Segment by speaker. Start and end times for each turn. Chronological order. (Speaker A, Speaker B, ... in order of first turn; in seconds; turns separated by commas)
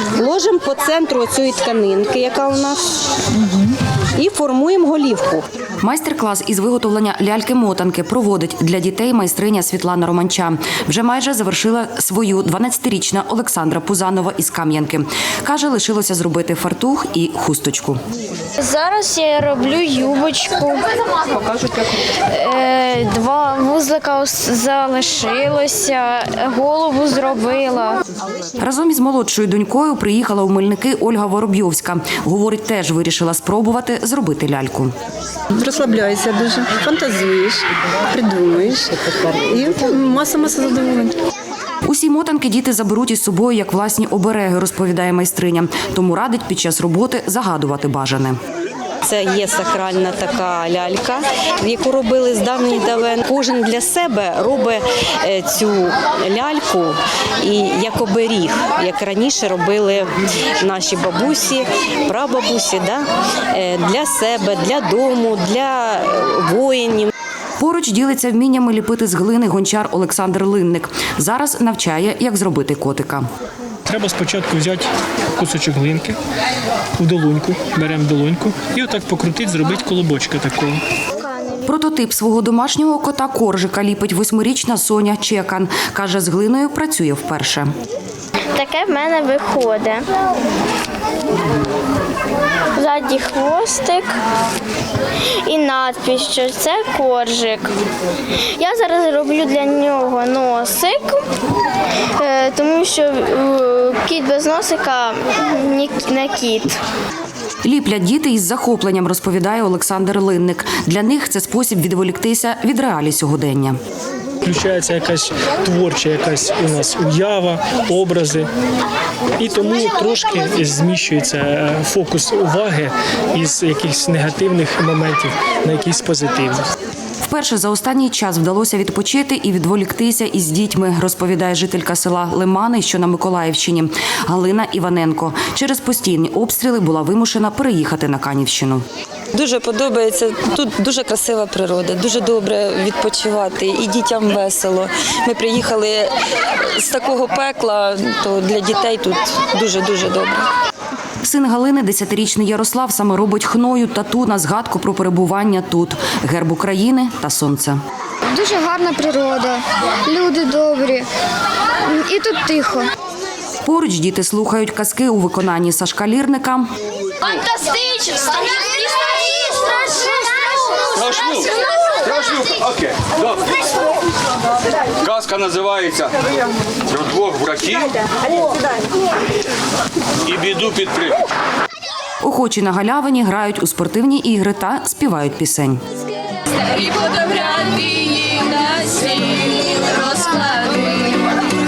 Speaker A: 0.1-2.8, Speaker A: 4.2-5.5, Speaker B: 5.8-18.0, Speaker C: 18.6-20.8, Speaker C: 22.3-28.0, Speaker B: 28.6-34.9, Speaker A: 35.6-38.9, Speaker A: 39.5-41.1, Speaker B: 41.9-48.4, Speaker A: 49.0-67.1, Speaker B: 67.6-73.2, Speaker D: 73.9-76.2, Speaker D: 77.0-80.8, Speaker B: 81.7-87.7, Speaker C: 88.5-90.1, Speaker C: 92.8-94.1, Speaker C: 95.5-97.7, Speaker C: 98.6-101.2, Speaker C: 102.2-106.8, Speaker B: 107.6-113.8, Speaker D: 114.4-118.5, Speaker D: 119.4-126.7, Speaker B: 127.2-138.8, Speaker E: 139.3-146.1, Speaker E: 146.7-150.4, Speaker B: 151.2-157.8, Speaker F: 158.3-161.1, Speaker F: 161.9-162.9, Speaker B: 163.6-166.7, Speaker C: 167.7-168.7, Speaker G: 170.9-173.5, Speaker G: 175.0-176.2, Speaker G: 176.9-178.0, Speaker G: 180.2-181.2, Speaker B: 182.2-185.8, Speaker H: 186.5-191.3